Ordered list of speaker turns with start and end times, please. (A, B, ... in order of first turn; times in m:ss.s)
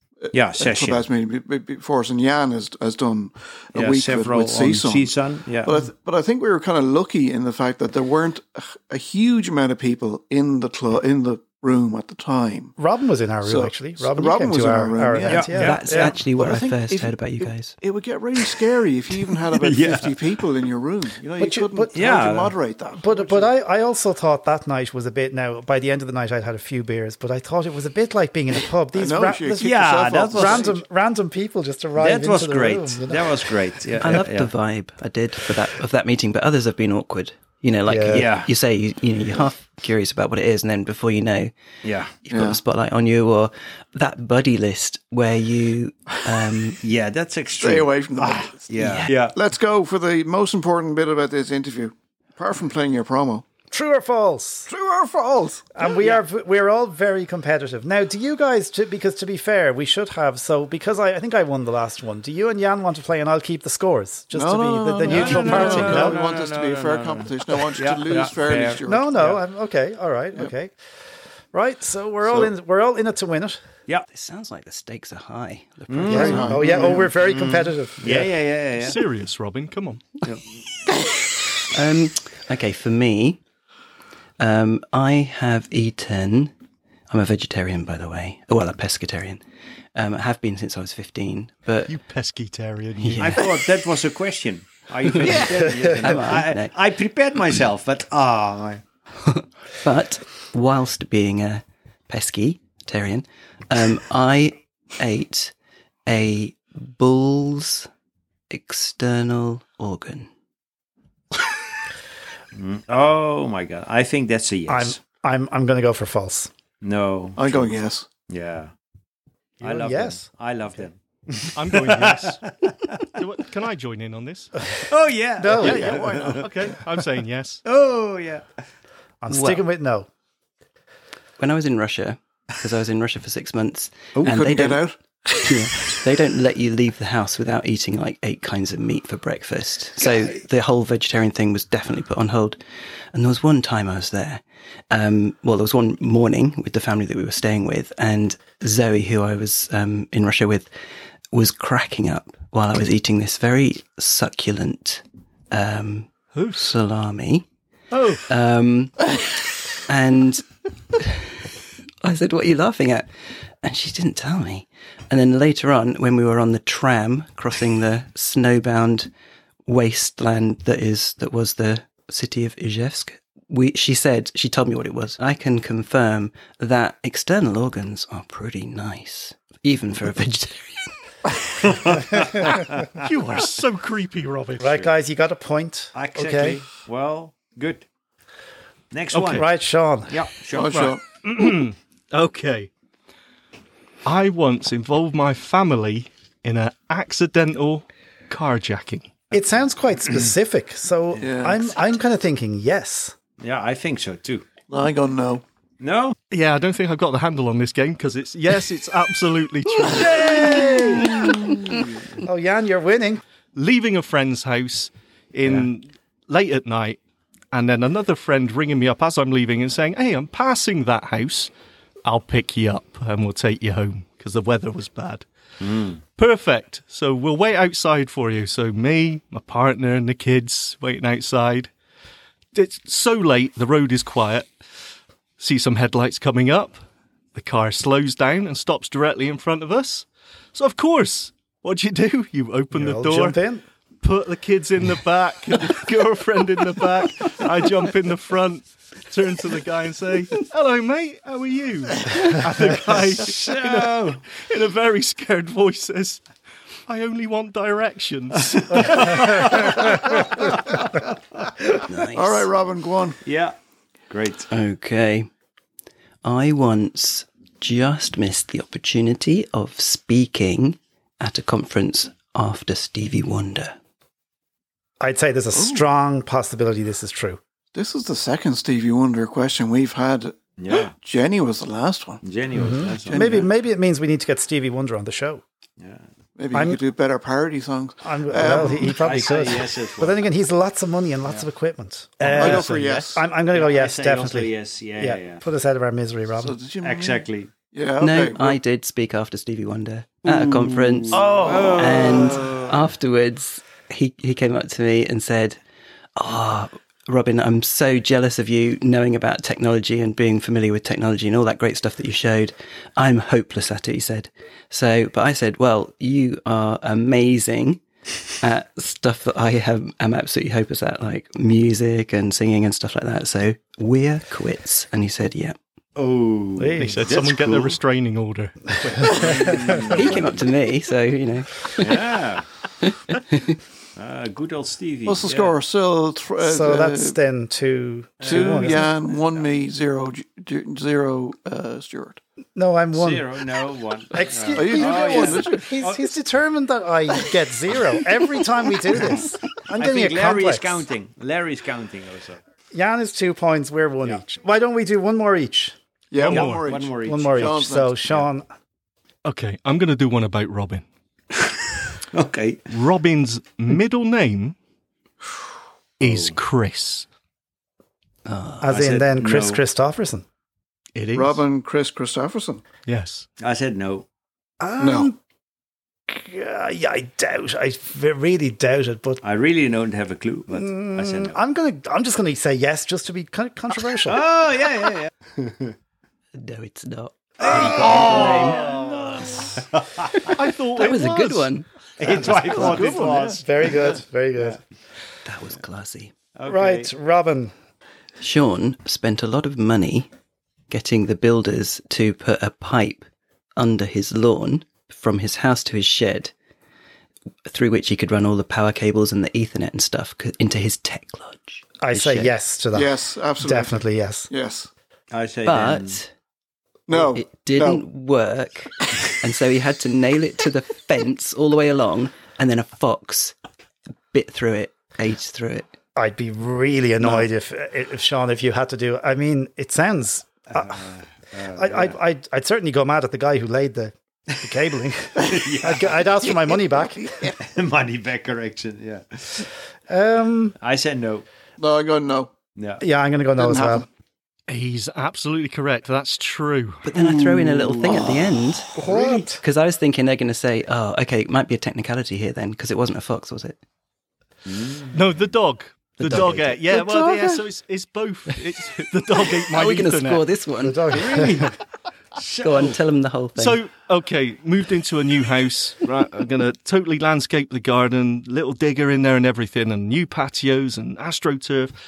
0:00.2-0:12.8 A
0:00.3-0:01.0 B
0:03.8-0:05.7 B
0:12.8-0:16.2 C
0:13.4-0:23.5 A
0:15.3-0:15.8 B
0:15.5-0:17.8 D
0:19.6-0:20.2 B
0:21.4-0:22.0 C
0:21.9-0:22.5 B
0:23.0-0:33.6 C
0:29.0-0:30.8 A
0:29.6-0:30.7 B
0:32.0-0:34.5 B
0:34.0-0:41.5 D
0:37.9-0:38.3 C
0:38.1-0:38.5 B
0:41.8-0:42.1 B
0:42.3-0:46.8 D
0:42.3-0:42.6 A
0:46.8-0:49.3 B
0:47.5-0:53.4 A
0:48.8-0:49.2 D
0:53.7-0:54.7 C
0:54.7-0:55.7 A
0:55.7-1:06.2 C
1:04.3-1:09.2 A
1:05.1-1:09.4 B
1:08.8-1:10.7 C
1:11.5-1:13.6 C
1:14.1-1:16.6 D
1:15.9-1:19.0 B
1:16.1-1:18.3 C
1:16.1-1:17.1 A
1:18.8-1:20.0 E
1:21.7-1:23.4 D
1:24.4-1:26.5 D
1:27.1-1:29.4 D
1:30.0-1:31.9 D
1:31.9-1:33.5 E
1:33.0-1:33.4 D
1:33.2-1:38.8 B
1:35.1-1:36.8 D
1:35.4-1:36.1 C
1:39.2-1:45.5 D
1:46.1-1:47.9 D
1:48.5-1:50.3 D
1:52.6-1:55.0 B
1:54.7-1:56.5 C
1:56.8-1:57.8 B
1:57.4-1:58.1 A
1:58.3-1:58.7 B
1:59.6-2:00.3 C
1:59.6-2:03.0 B
2:01.6-2:02.4 E
2:03.2-2:04.5 E
2:04.9-2:06.5 B
2:05.4-2:06.0 C
2:05.6-2:06.7 A
2:05.6-2:07.6 E
2:07.6-2:08.6 B
2:09.2-2:10.1 C
2:09.3-2:09.7 D
2:11.4-2:22.6 D
2:14.2-2:15.0 A
2:23.1-2:30.7 D
2:31.3-2:37.5 D
2:36.3-2:36.6 E
2:37.9-2:38.2 E
2:38.3-2:39.1 D
2:39.9-2:40.4 D
2:41.0-2:41.2 D
2:42.0-2:43.1 D
2:43.6-2:49.1 D
2:49.7-3:00.9 D
3:01.6-3:02.8 B
3:03.0-3:04.8 E
3:04.6-3:06.6 C
3:05.9-3:07.8 B
3:08.9-3:09.5 B
3:09.1-3:09.4 E
3:09.2-3:10.2 C
3:10.1-3:10.9 B
3:10.5-3:11.0 A
3:10.7-3:12.7 E
3:14.0-3:19.2 E
3:19.3-3:23.2 C
3:21.2-3:21.7 A
3:23.4-3:24.4 B
3:24.7-3:25.4 A
3:25.8-3:26.2 B
3:26.3-3:31.0 E
3:29.9-3:31.8 B
3:30.2-3:31.2 C
3:32.2-3:33.2 C
3:33.6-3:37.0 E
3:37.5-3:41.5 E
3:42.0-3:45.3 E
3:45.6-3:46.0 B
3:46.2-3:51.7 E
3:52.5-3:54.5 E
3:55.4-3:56.8 E
3:57.4-4:03.4 E
4:02.7-4:03.6 C
4:04.0-4:16.2 E
4:13.0-4:14.2 B
4:16.9-4:20.2 E
4:18.6-4:19.9 B
4:21.9-4:22.5 D
4:22.1-4:23.2 A
4:23.2-4:23.6 B
4:24.1-4:24.5 B
4:24.5-4:25.3 D
4:26.2-4:33.8 D
4:35.0-4:37.4 C
4:35.6-4:35.8 A
4:37.7-4:42.2 A
4:40.6-4:40.9 B
4:42.2-4:43.5 B
4:42.5-4:45.4 C
4:43.1-4:43.5 A
4:45.8-4:46.0 B
4:46.4-4:49.0 A
4:46.5-4:46.8 C
4:48.0-4:56.6 C
4:48.9-4:50.2 B
4:52.3-4:53.0 E
4:52.3-4:53.2 A
4:52.4-4:53.0 B
4:53.5-4:55.4 B
4:56.4-4:58.6 A
4:56.8-4:57.5 B
4:58.0-5:05.6 D
5:00.3-5:02.7 B
5:01.1-5:01.8 C
5:01.1-5:02.6 A
5:06.2-5:17.8 D
5:18.4-5:25.6 D
5:26.0-5:27.8 B
5:26.6-5:27.1 C
5:26.8-5:29.4 E
5:29.1-5:30.4 B
5:29.2-5:29.8 C
5:30.0-5:32.1 D
5:31.8-5:32.5 B
5:32.8-5:33.6 D
5:34.0-5:35.6 B
5:35.1-5:37.2 A
5:36.4-5:39.1 C
5:38.2-5:38.8 B
5:38.2-5:42.2 A
5:42.6-5:43.3 C
5:42.9-5:46.2 B
5:44.1-5:50.8 C
5:44.5-5:45.7 A
5:49.8-5:52.4 B
5:52.7-5:55.8 C
5:56.1-5:58.0 A
5:56.2-5:56.7 E
5:56.3-5:58.2 B
5:57.0-5:58.5 C
5:59.2-6:00.8 E
6:02.1-6:02.6 B
6:02.7-6:04.6 E
6:06.0-6:07.1 E
6:06.0-6:06.4 B
6:08.2-6:08.8 D
6:08.6-6:10.2 C
6:08.7-6:09.6 B
6:11.0-6:11.4 E
6:11.1-6:12.6 A
6:12.9-6:13.3 E
6:13.4-6:14.1 B
6:14.6-6:15.2 C
6:14.8-6:15.1 A
6:16.1-6:19.2 C
6:19.2-6:21.4 B
6:20.5-6:24.2 C
6:24.0-6:25.7 B
6:26.4-6:28.6 D
6:27.4-6:30.2 B
6:27.8-6:28.6 C
6:30.3-6:31.6 E
6:30.7-6:31.7 D
6:32.0-6:34.6 B
6:32.2-6:33.4 E
6:32.3-6:32.8 D
6:32.5-6:34.6 C
6:35.3-6:36.1 D
6:36.4-6:36.9 B
6:36.4-6:37.5 C
6:38.2-6:40.1 D
6:40.7-6:43.0 D
6:43.6-6:46.3 D
6:47.5-6:52.4 D
6:51.8-6:54.3 C
6:52.7-6:54.7 A
6:55.1-6:56.0 B
6:55.4-6:56.1 D
6:56.9-6:57.8 A
6:57.0-7:03.3 D
7:04.1-7:05.7 D
7:06.0-7:10.9 C
7:10.5-7:12.0 B
7:11.5-7:17.1 C
7:15.2-7:16.3 B
7:17.4-7:19.5 B
7:19.9-7:20.6 C
7:20.6-7:21.3 B
7:21.6-7:22.3 A
7:22.6-7:22.8 B
7:22.8-7:23.9 C
7:23.4-7:23.9 A
7:24.5-7:26.8 E
7:26.8-7:28.7 D
7:27.0-7:28.0 A
7:27.4-7:28.4 B
7:28.8-7:29.4 C
7:28.9-7:29.2 A
7:29.4-7:33.6 D
7:34.5-7:35.0 B
7:34.9-7:40.3 E
7:36.0-7:37.4 D
7:39.5-7:40.9 D
7:40.6-7:41.5 C
7:40.9-7:41.5 B
7:42.2-7:42.8 B
7:42.4-7:43.6 D
7:43.4-7:51.7 E